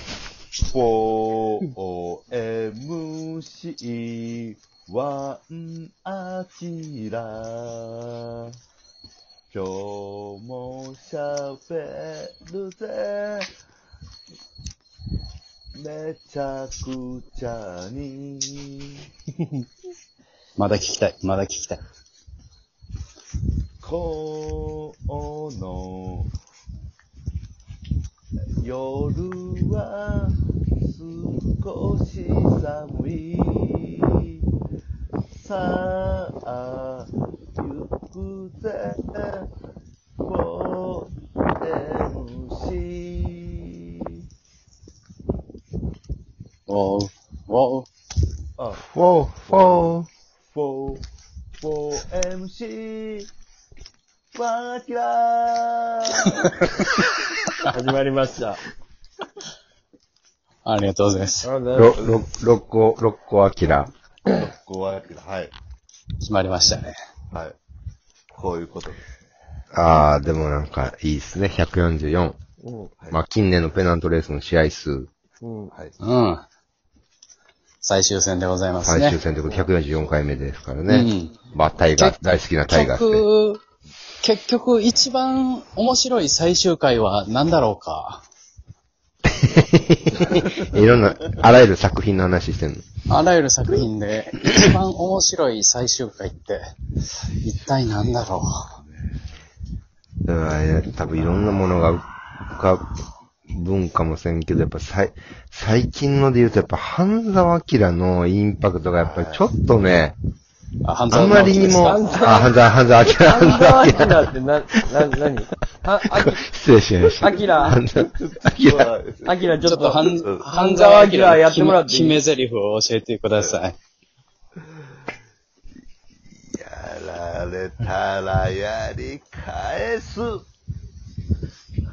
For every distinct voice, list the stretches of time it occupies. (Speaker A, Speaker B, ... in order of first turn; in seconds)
Speaker A: 0.7-8.5, 9.5-13.5, 15.8-19.0, 23.8-26.3, 28.6-34.4, 35.4-39.5, 40.2-44.2, 49.5-50.0, 50.5-51.0, 51.6-53.3, 54.4-56.5, 64.3-65.5, 68.3-69.0, 109.0-109.5, 118.2-119.3, 126.5-130.4
Speaker B: 20.6-21.8, 46.7-47.9, 60.6-61.5, 66.2-66.9, 76.0-76.4, 77.8-79.2, 80.9-81.3, 82.0-83.6, 84.2-88.2, 93.1-96.7, 97.3-98.7, 110.8-112.0, 119.6-123.8
Speaker C: 48.8-50.1, 61.8-63.9, 69.7-72.4, 73.1-75.1, 78.8-83.2, 89.3-92.9, 100.3-102.9, 103.5-110.2, 111.1-114.3, 116.2-118.9
Speaker D: 57.7-58.6, 61.4-62.1, 72.6-72.9, 75.4-75.7, 111.7-112.6, 113.2-116.5, 117.2-117.8, 119.2-122.2